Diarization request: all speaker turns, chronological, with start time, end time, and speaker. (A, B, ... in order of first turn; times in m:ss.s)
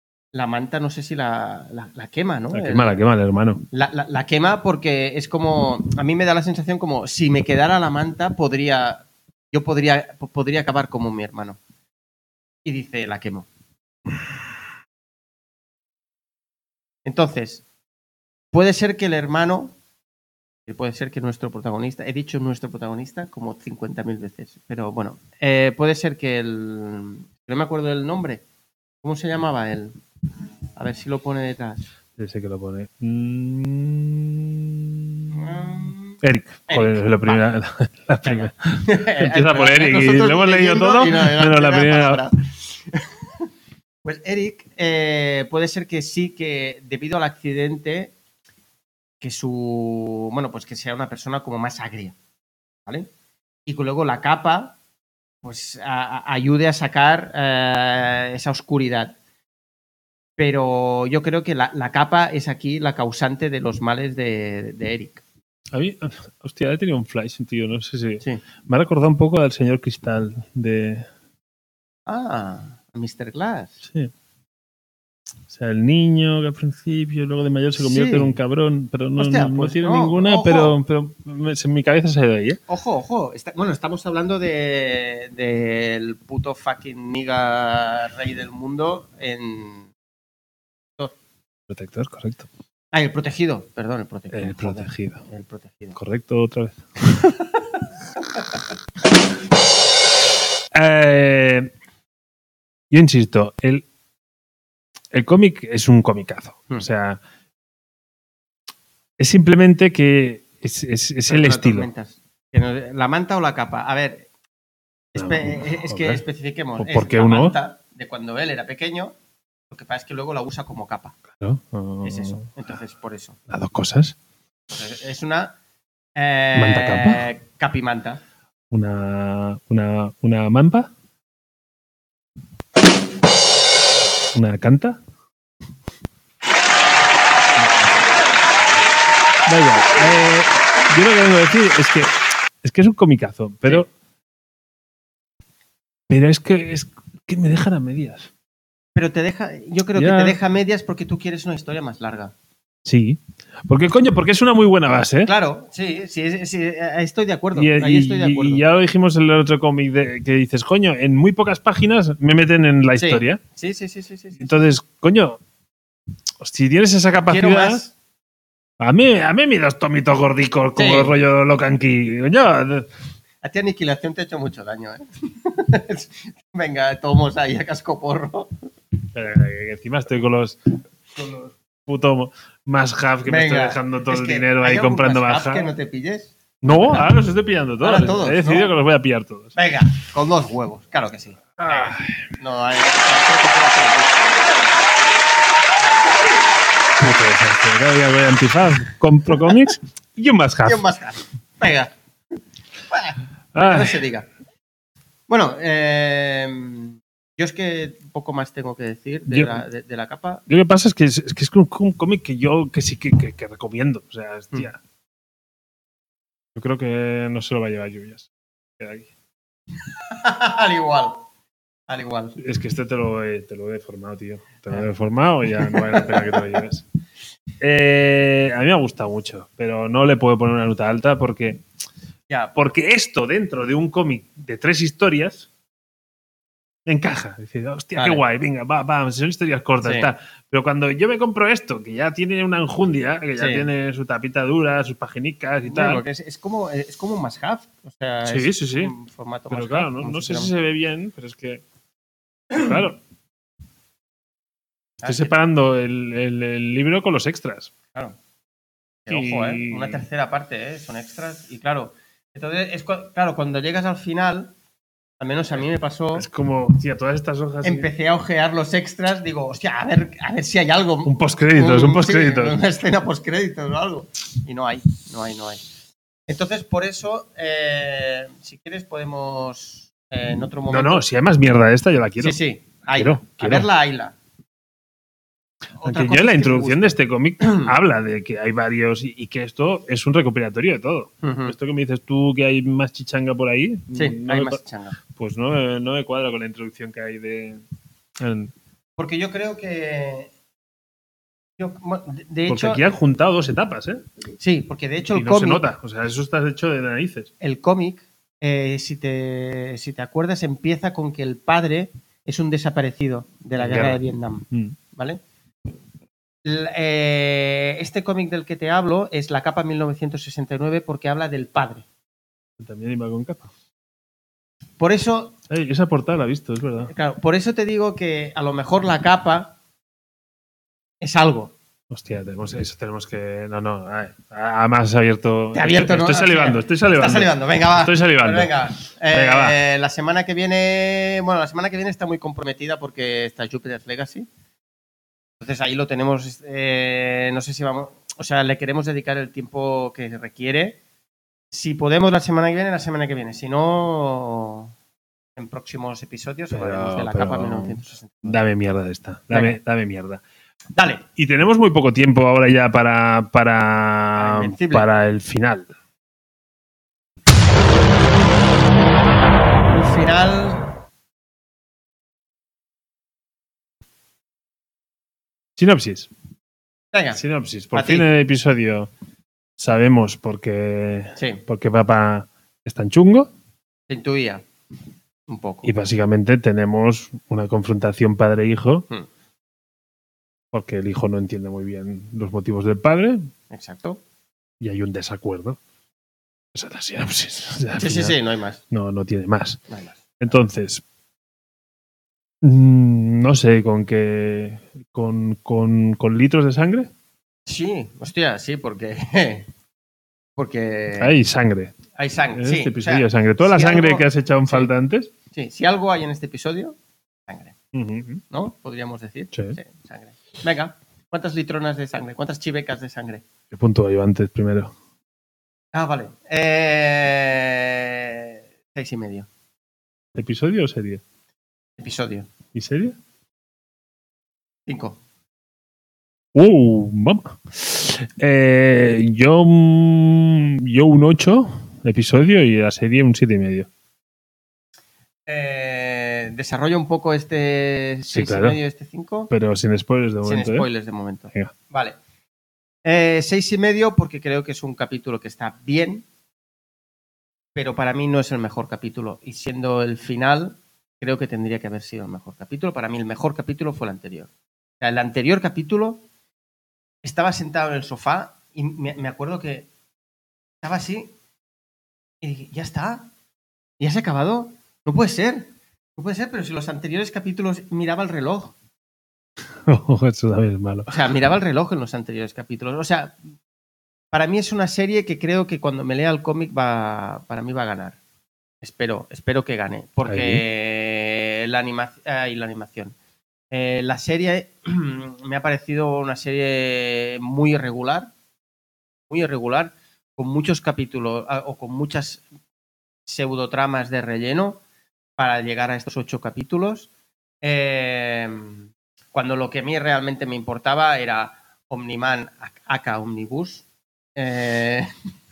0:00.3-0:03.0 A
0:02.5-0:03.6 B
0:03.7-0:11.6 A
0:12.6-0:13.5 A
0:17.0-0:17.6 A
0:18.5-0:19.8 A
0:20.7-0:28.4 A
0:29.0-0:30.0 A
0:30.8-0:31.8 A
0:32.2-0:42.2 B
0:35.3-0:37.5 A
0:38.2-0:43.4 A
0:44.0-0:48.1 A
0:49.2-0:52.2 A
0:53.7-0:54.8 A
0:55.4-0:59.2 A
1:00.4-1:05.2 A
1:05.7-1:11.1 B
1:12.1-1:13.8 A
1:13.8-1:14.1 B
1:15.5-1:22.6 B
1:17.8-1:18.4 A
1:19.2-1:20.7 A
1:22.7-1:29.9 A
1:31.7-1:32.5 B
1:32.9-1:36.0 A
1:34.3-1:35.2 B
1:36.0-1:36.8 B
1:40.7-1:41.7 B
1:42.9-1:43.8 B
1:45.1-1:47.2 B
1:49.2-1:51.9 B
1:51.3-1:54.3 A
1:55.1-1:59.2 A
1:55.1-1:56.2 B
1:56.8-1:57.6 B
1:59.7-2:01.1 A
2:01.4-2:02.5 B
2:02.0-2:03.4 A
2:03.5-2:04.2 B
2:04.7-2:05.6 A
2:06.2-2:08.2 A
2:06.6-2:07.3 B
2:08.7-2:10.9 B
2:14.3-2:15.0 B
2:17.6-2:18.0 B
2:19.4-2:23.9 B
2:26.1-2:28.3 B
2:29.0-2:32.3 A
2:30.0-2:30.4 B
2:32.8-2:35.3 B
2:35.2-2:38.6 A
2:37.6-2:43.4 B
2:43.0-2:44.6 A
2:44.4-2:45.4 B
2:46.4-2:47.8 B
2:47.3-2:47.9 A
2:48.8-2:52.9 B
2:50.8-2:51.2 A
2:53.4-2:58.5 A
2:59.1-3:00.6 B
3:01.2-3:01.5 A
3:01.9-3:05.7 B
3:03.3-3:07.1 A
3:06.6-3:09.6 B
3:07.8-3:08.7 A
3:09.6-3:11.8 A
3:11.6-3:12.3 B
3:12.4-3:14.4 A
3:15.8-3:16.2 A
3:17.0-3:20.8 B
3:20.6-3:21.9 A
3:22.9-3:24.3 A
3:23.5-3:24.0 B
3:25.3-3:30.4 A
3:29.3-3:29.6 B
3:30.5-3:34.8 B
3:36.6-3:39.1 B
3:40.1-3:41.2 A
3:41.9-3:42.4 A
3:42.4-3:46.8 B
3:45.6-3:46.6 A
3:47.6-3:51.6 B
3:52.3-3:52.6 A
3:52.6-3:55.5 B
3:56.9-4:06.0 B
3:58.0-3:58.2 A
3:59.8-4:00.1 A
4:03.4-4:03.7 A
4:05.6-4:10.5 A
4:08.2-4:08.9 B
4:09.5-4:11.6 B
4:12.5-4:13.0 B
4:15.0-4:15.3 A
4:15.0-4:17.7 B
4:19.0-4:24.6 A
4:19.1-4:20.0 B
4:25.2-4:26.3 A
4:26.1-4:27.9 B
4:27.6-4:35.7 A
4:31.0-4:32.6 B
4:36.3-4:41.0 A
4:40.7-4:42.4 B
4:42.2-4:44.2 A
4:43.0-4:43.7 B
4:45.8-4:47.7 A
4:45.8-4:54.6 B
4:51.2-4:51.6 A
4:53.9-4:55.0 A
4:55.1-4:57.6 B
4:58.2-4:58.5 B
4:59.0-5:00.3 A
5:01.6-5:02.8 A
5:02.5-5:04.0 B
5:04.4-5:05.7 A
5:05.1-5:07.3 B
5:07.4-5:15.2 A
5:13.6-5:14.8 B
5:16.4-5:21.8 A
5:22.6-5:23.5 B
5:24.8-5:25.4 A
5:25.5-5:26.9 B
5:26.9-5:29.6 A
5:31.0-5:31.5 A
5:31.9-5:38.5 B
5:35.5-5:44.3 A
5:39.1-5:39.6 B
5:45.4-5:50.8 A
5:51.5-5:54.7 A
5:55.4-5:58.4 A
5:56.5-6:00.2 B
5:59.3-5:59.6 A
6:00.8-6:01.0 A
6:01.2-6:05.7 B
6:04.2-6:04.9 A
6:09.7-6:10.7 A
6:15.6-6:16.1 B
6:16.9-6:17.2 A
6:17.1-6:18.9 B
6:17.7-6:18.1 A
6:19.6-6:23.3 B
6:21.2-6:21.4 A
6:23.9-6:24.4 A
6:25.3-6:25.7 A
6:25.6-6:28.9 B
6:30.5-6:33.3 B
6:33.5-6:34.0 A
6:34.6-6:35.6 B
6:36.5-6:38.2 B
6:37.8-6:38.6 A
6:38.7-6:39.6 B
6:39.7-6:40.2 A
6:40.2-6:40.8 B
6:42.4-6:46.9 B
6:47.5-6:49.5 A
6:50.4-6:51.2 A
6:51.0-6:51.8 B
6:52.0-6:54.7 A
6:52.4-6:55.1 B
6:55.3-6:57.6 A
6:57.7-6:58.2 B
6:58.3-7:03.2 A
6:59.3-6:59.6 B
7:03.5-7:04.7 B
7:05.7-7:09.3 A
7:10.1-7:11.0 B
7:11.8-7:12.3 A
7:12.5-7:13.0 B
7:14.7-7:15.0 A
7:16.3-7:23.7 B
7:25.3-7:29.3 A
7:28.1-7:28.6 B
7:29.3-7:30.7 B
7:30.2-7:32.0 A
7:32.8-7:36.1 A
7:37.6-7:44.3 A
7:44.8-7:46.0 A
7:47.0-7:49.7 A
7:50.6-7:51.1 A
7:52.2-7:53.1 A
7:53.8-7:58.6 A
7:59.7-8:00.9 B
8:00.9-8:03.2 A
8:04.1-8:08.0 A
8:08.6-8:13.0 A
8:10.1-8:10.4 B
8:13.5-8:18.1 A
8:19.1-8:22.2 A
8:23.1-8:24.6 A
8:25.2-8:26.9 A
8:27.4-8:34.9 A